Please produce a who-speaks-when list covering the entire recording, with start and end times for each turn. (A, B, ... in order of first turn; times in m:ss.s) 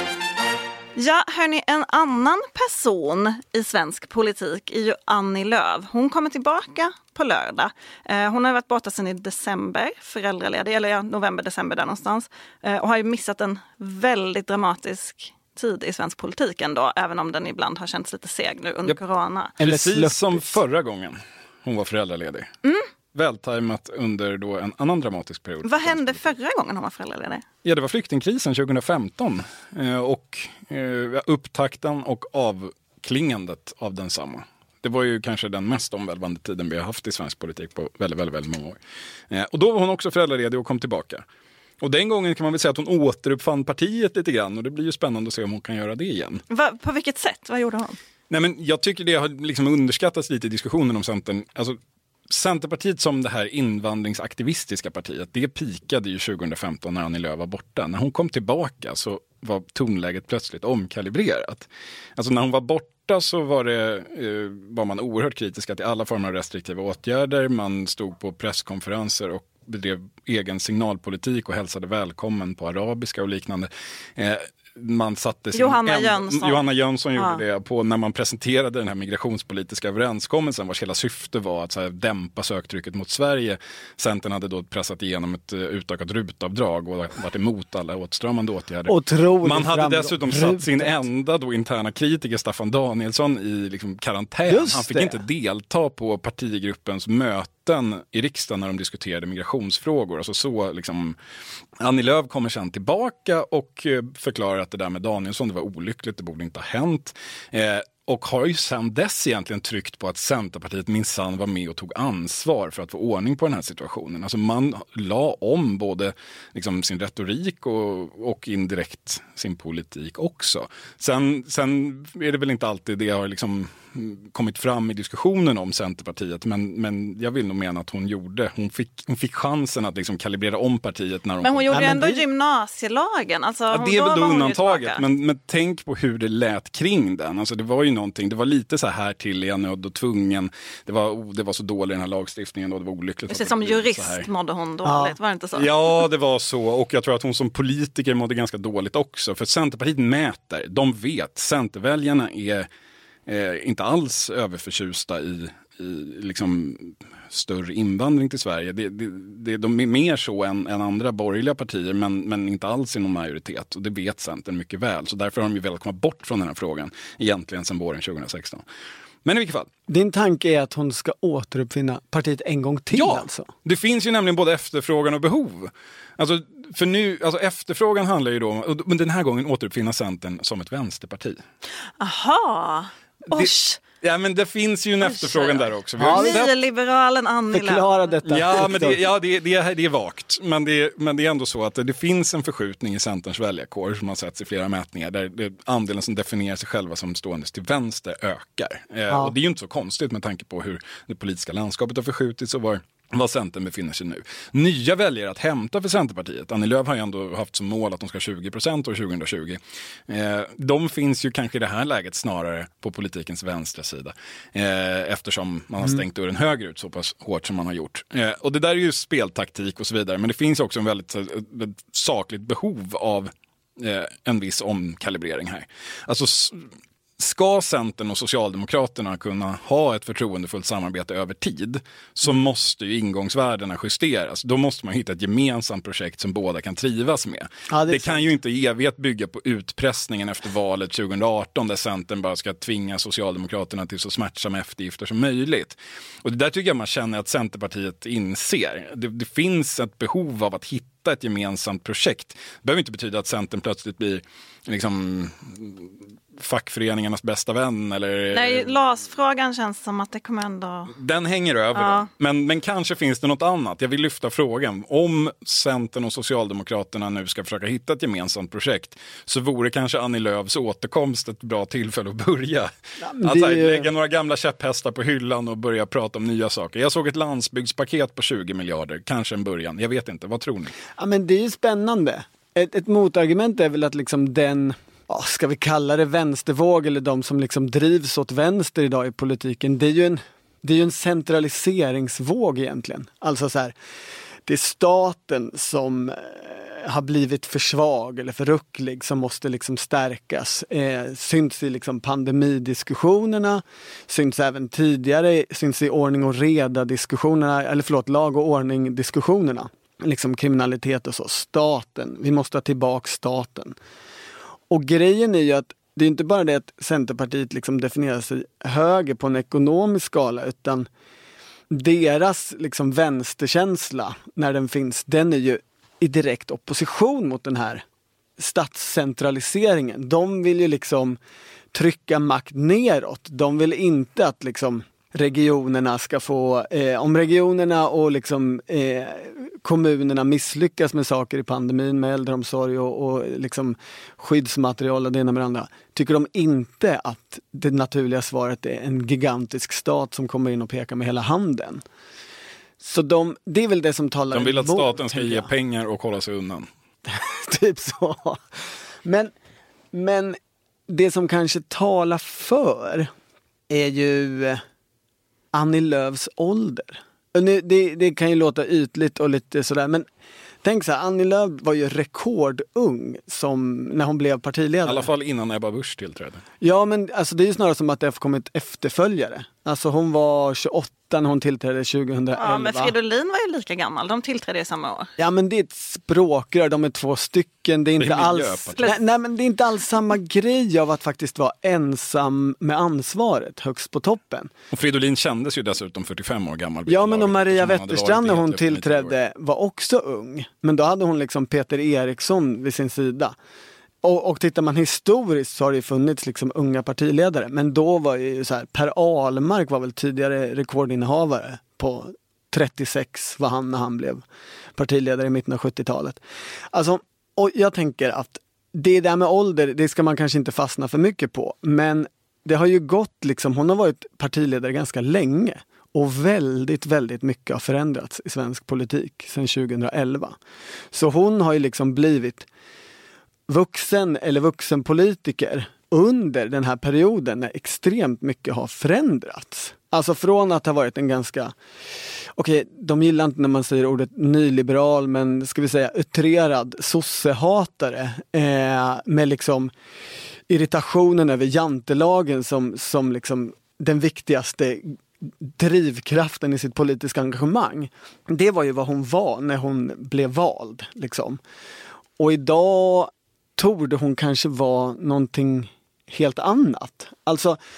0:01.0-0:19.6 A
0:19.6-0:22.5 B
0:19.6-0:20.6 C
0:23.1-0:26.3 B
0:25.6-0:27.4 A
0:27.6-0:38.8 B
0:39.3-0:41.2 B
0:41.8-0:46.4 B
0:46.5-0:48.0 A
0:48.3-0:51.8 B
0:52.3-1:41.2 B
1:15.5-1:16.6 A
1:17.2-1:17.4 A
1:28.9-1:31.0 C
1:34.5-1:35.2 C
1:41.8-2:11.8 B
2:11.4-2:15.0 A
2:11.7-2:12.2 C
2:13.7-2:24.3 B
2:23.3-2:26.0 A
2:24.8-2:25.2 C
2:25.6-2:32.7 B
2:33.3-2:48.6 B
2:49.2-2:49.7 B
2:49.9-2:53.5 C
2:52.9-3:01.4 B
3:02.0-3:03.8 A
3:03.3-3:06.6 B
3:05.0-3:07.9 A
3:06.0-3:06.4 C
3:07.5-3:09.0 C
3:08.3-3:46.7 B
3:47.2-4:18.7 B
3:57.7-3:58.3 C
4:18.3-4:21.0 A
4:20.9-4:40.7 B
4:21.8-4:22.1 A
4:33.0-4:33.9 C
4:41.0-4:53.8 C
4:54.5-5:13.8 C
5:14.7-5:20.9 C
5:21.7-5:27.8 C
5:28.4-5:31.2 C
5:31.7-5:51.8 C
5:52.8-5:55.5 C
5:54.3-5:56.7 B
5:57.1-5:58.4 C
5:59.0-5:59.3 C
5:59.9-6:03.1 C
6:03.7-6:04.6 C
6:05.5-6:10.1 C
6:10.6-6:15.1 C
6:14.9-6:16.4 B
6:16.6-6:22.9 C
6:22.4-6:25.1 A
6:25.2-6:34.5 C
6:28.0-6:29.0 B
6:34.7-6:39.1 B
6:36.9-6:43.4 C
6:44.0-6:54.2 C
6:54.8-6:56.2 C
6:56.7-7:10.4 C
7:10.9-7:12.5 C
7:13.5-7:21.6 C
7:22.3-7:29.7 C
7:30.5-7:41.4 C
7:42.2-7:47.6 C